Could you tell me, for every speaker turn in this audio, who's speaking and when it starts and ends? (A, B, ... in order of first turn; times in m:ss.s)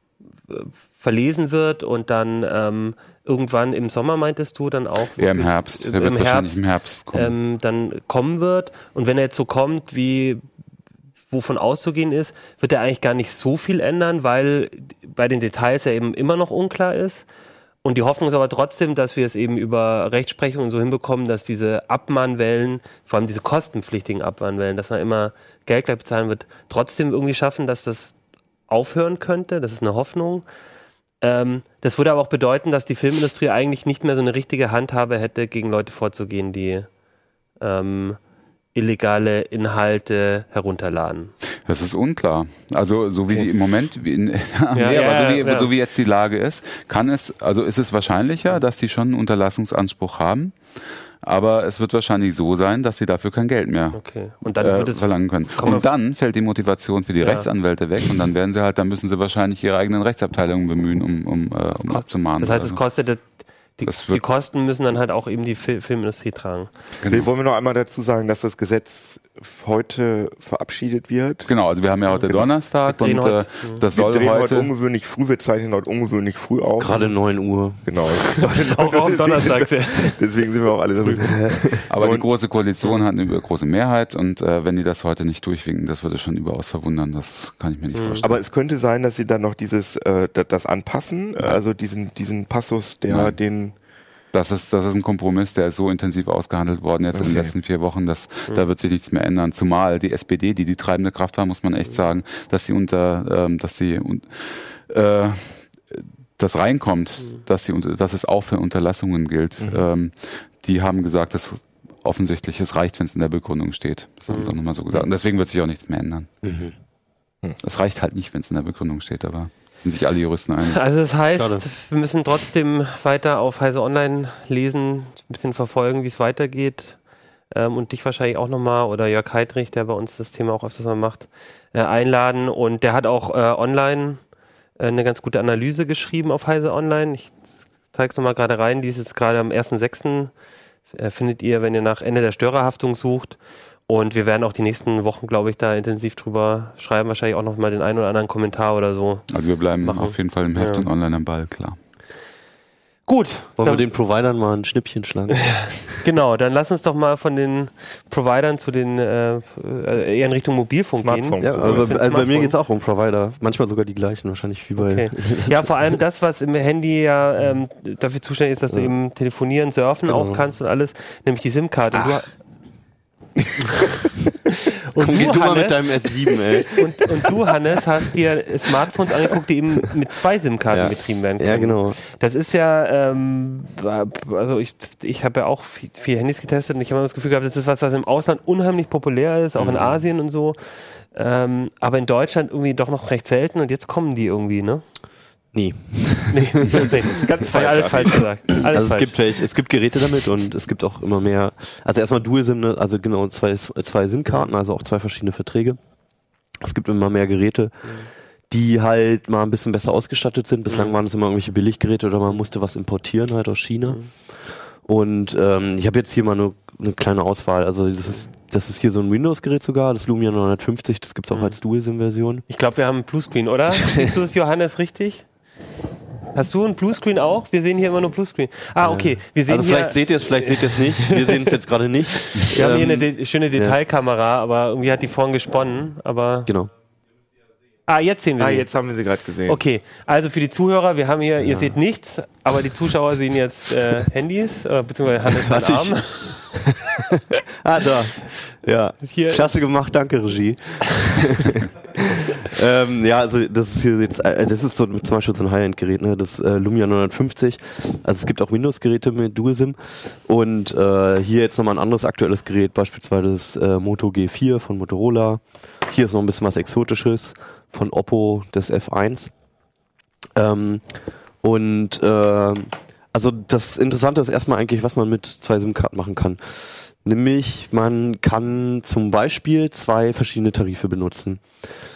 0:00.5-0:10.4 A
0:05.2-0:07.3 B
0:11.3-0:17.2 A
0:17.8-0:28.1 A
0:28.7-0:30.4 A
0:31.2-0:36.9 A
0:37.6-0:38.2 A
0:38.7-0:41.3 A
0:41.7-0:50.6 B
0:44.7-0:45.7 A
0:51.2-0:54.0 B
0:53.9-0:55.9 A
0:54.5-1:02.8 B
0:57.2-0:57.5 A
1:01.7-1:03.2 A
1:03.8-1:06.7 A
1:03.9-1:04.2 B
1:07.0-1:07.3 B
1:07.1-1:11.5 C
1:11.4-1:14.7 B
1:12.1-1:12.5 C
1:13.0-1:13.8 A
1:13.9-1:17.1 C
1:16.8-1:18.2 D
1:17.8-1:22.3 C
1:18.6-1:20.2 A
1:21.1-1:21.8 D
1:21.9-1:28.4 B
1:27.9-1:28.2 A
1:28.2-1:33.7 C
1:33.1-1:33.4 B
1:34.3-1:56.3 B
1:37.1-1:37.5 C
1:49.6-1:49.9 C
1:54.3-1:54.5 A
1:56.4-1:56.7 D
1:57.6-2:00.8 B
2:00.6-2:07.0 A
2:01.4-2:01.6 D
2:07.5-2:14.2 A
2:14.8-2:17.3 A
2:17.9-2:20.3 A
2:20.9-2:29.2 A
2:29.3-2:31.8 B
2:29.8-2:30.8 A
2:33.1-2:33.8 A
2:33.6-2:35.9 D
2:35.5-2:42.6 A
2:41.0-2:42.3 C
2:41.4-2:45.7 D
2:44.8-2:52.3 A
2:50.1-2:50.4 D
2:53.4-2:53.9 C
2:54.9-2:55.9 A
2:55.0-2:56.8 D
2:56.8-3:14.8 A
3:00.7-3:02.0 D
3:15.5-3:17.2 D
3:16.3-3:19.2 A
3:17.1-3:18.3 C
3:18.7-3:25.8 D
3:26.6-3:27.9 D
3:28.5-3:34.0 D
3:30.7-3:31.0 A
3:34.8-3:42.4 D
3:41.3-3:41.6 A
3:42.5-3:45.2 A
3:46.3-3:51.6 A
3:48.8-3:53.8 D
3:52.2-3:56.5 A
3:57.9-3:58.7 A
3:58.4-3:59.6 C
3:59.5-4:06.4 A
4:01.4-4:01.7 D
4:05.2-4:29.3 D
4:09.0-4:09.5 A
4:30.4-4:30.8 D
4:31.4-4:41.4 D